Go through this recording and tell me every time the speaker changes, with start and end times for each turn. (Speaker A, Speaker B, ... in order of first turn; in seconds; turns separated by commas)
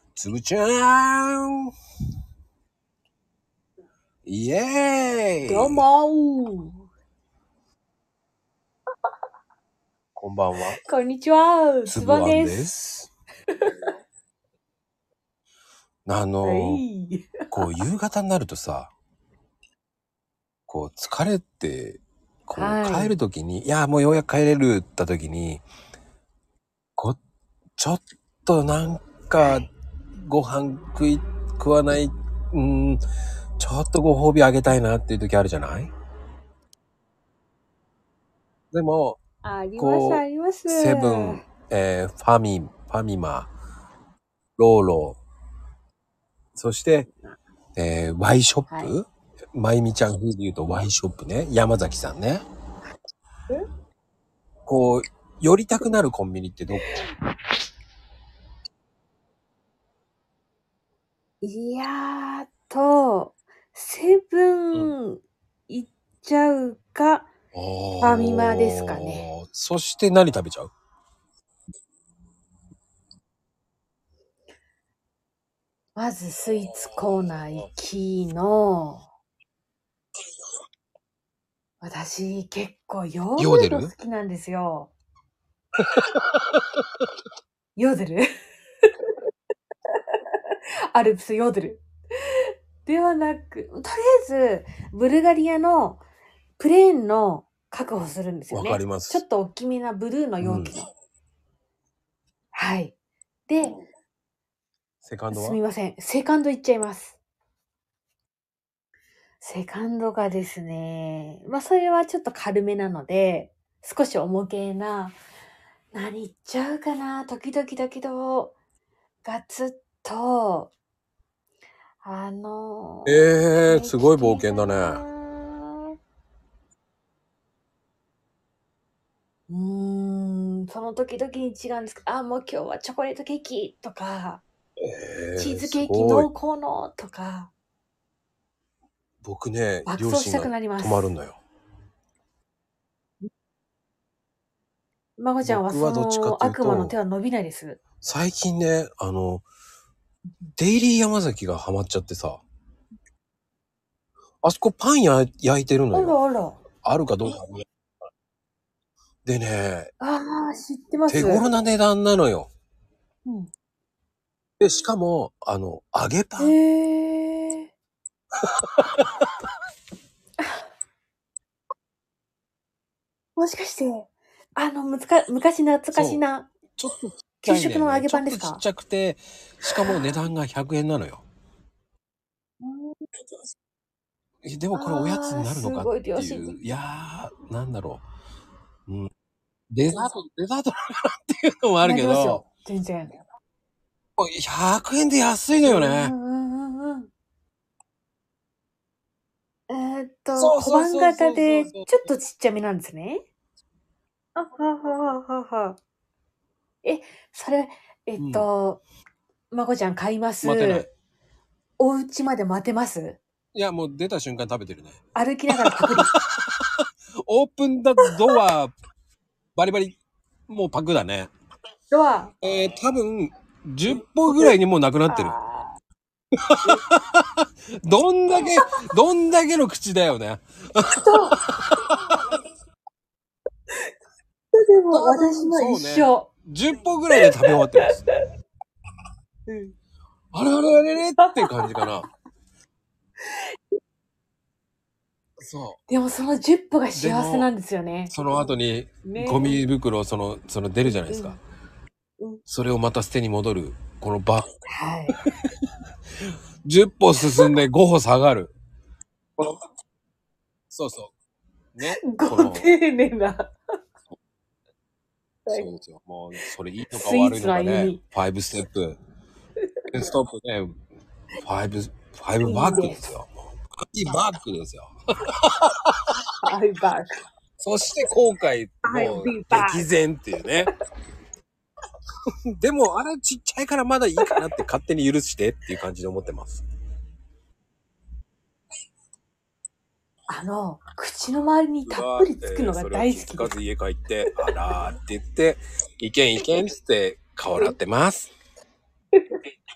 Speaker A: 0.1-1.7, Speaker A: 4.2-5.8, Speaker B: 5.5-6.8, Speaker A: 10.2-10.8, Speaker B: 10.8-12.7, Speaker A: 11.8-13.1, Speaker A: 16.1-16.8, Speaker B: 16.4-17.8, Speaker A: 17.5-18.9, Speaker A: 20.7-25.6, Speaker B: 22.5-23.1, Speaker A: 27.8-29.6, Speaker B: 29.4-29.7, Speaker A: 30.2-33.0, Speaker A: 33.6-35.9, Speaker A: 38.7-39.2, Speaker B: 39.4-41.4, Speaker A: 39.8-43.5, Speaker A: 44.6-45.2, Speaker A: 46.5-47.1, Speaker A: 47.8-52.4, Speaker B: 48.7-48.9, Speaker A: 54.7-56.8, Speaker B: 61.4-67.3, Speaker A: 67.5-70.7, Speaker B: 68.0-69.3, Speaker B: 76.0-79.0, Speaker B: 81.8-84.9, Speaker A: 83.4-83.9, Speaker A: 85.8-86.6, Speaker B: 87.8-88.3, Speaker B: 89.9-91.8, Speaker B: 92.8-96.0, Speaker B: 96.6-100.9, Speaker A: 98.5-99.2, Speaker A: 100.4-100.8, Speaker B: 102.5-102.9, Speaker B: 103.5-103.8, Speaker A: 105.0-105.6, Speaker B: 105.3-107.2, Speaker B: 109.4-115.2, Speaker B: 115.9-118.5, Speaker B: 119.2-120.7, Speaker B: 122.0-125.9, Speaker A: 123.0-125.0, Speaker B: 129.5-134.4, Speaker A: 134.8-136.3, Speaker B: 135.4-137.5, Speaker A: 139.2-141.4, Speaker B: 139.8-141.1, Speaker B: 145.2-147.8, Speaker A: 145.4-146.9, Speaker A: 148.0-149.4, Speaker A: 150.6-152.4, Speaker A: 154.4-156.2, Speaker B: 155.9-156.6, Speaker A: 156.8-157.6, Speaker A: 159.2-159.9, Speaker B: 160.0-161.5, Speaker A: 161.1-162.5, Speaker B: 163.2-163.5, Speaker A: 164.6-166.6, Speaker B: 166.4-167.7, Speaker A: 168.6-169.1, Speaker B: 173.3-176.5, Speaker A: 175.9-176.2, Speaker A: 176.8-181.2, Speaker B: 177.4-178.6, Speaker B: 179.8-180.1, Speaker B: 182.6-183.0, Speaker A: 184.4-188.0, Speaker B: 184.7-186.6, Speaker A: 189.7-192.4, Speaker B: 191.8-193.2, Speaker A: 194.2-196.1, Speaker B: 195.6-197.1, Speaker B: 199.7-203.2, Speaker A: 200.3-202.1, Speaker B: 204.3-205.8, Speaker B: 206.8-208.8, Speaker A: 208.2-208.5, Speaker B: 209.5-210.9, Speaker A: 210.4-210.9, Speaker B: 211.8-213.2, Speaker A: 213.5-215.0, Speaker B: 215.1-216.1, Speaker A: 215.6-218.7, Speaker A: 219.6-220.0, Speaker A: 220.5-221.3, Speaker B: 221.9-222.3, Speaker A: 222.4-225.3, Speaker B: 225.1-225.8, Speaker A: 227.1-232.2, Speaker B: 230.9-231.4, Speaker B: 234.5-236.3, Speaker A: 234.9-238.0, Speaker B: 237.2-238.1, Speaker B: 239.5-239.7, Speaker A: 240.3-242.1, Speaker B: 241.2-241.8, Speaker B: 243.3-243.6, Speaker A: 245.4-245.8, Speaker B: 245.9-248.1, Speaker A: 246.9-247.5, Speaker A: 248.1-251.4, Speaker B: 249.0-249.6, Speaker B: 250.8-251.4, Speaker A: 252.5-254.4, Speaker B: 254.7-255.2, Speaker A: 256.6-258.5, Speaker A: 260.7-261.1, Speaker A: 261.8-262.7, Speaker B: 262.0-263.5, Speaker A: 265.5-269.0, Speaker B: 266.4-268.0, Speaker A: 269.9-270.7, Speaker A: 271.4-276.2, Speaker B: 272.4-273.1, Speaker B: 276.4-277.2, Speaker A: 277.6-280.7, Speaker B: 278.8-279.9, Speaker A: 282.5-286.6, Speaker B: 290.3-293.6, Speaker A: 291.9-298.3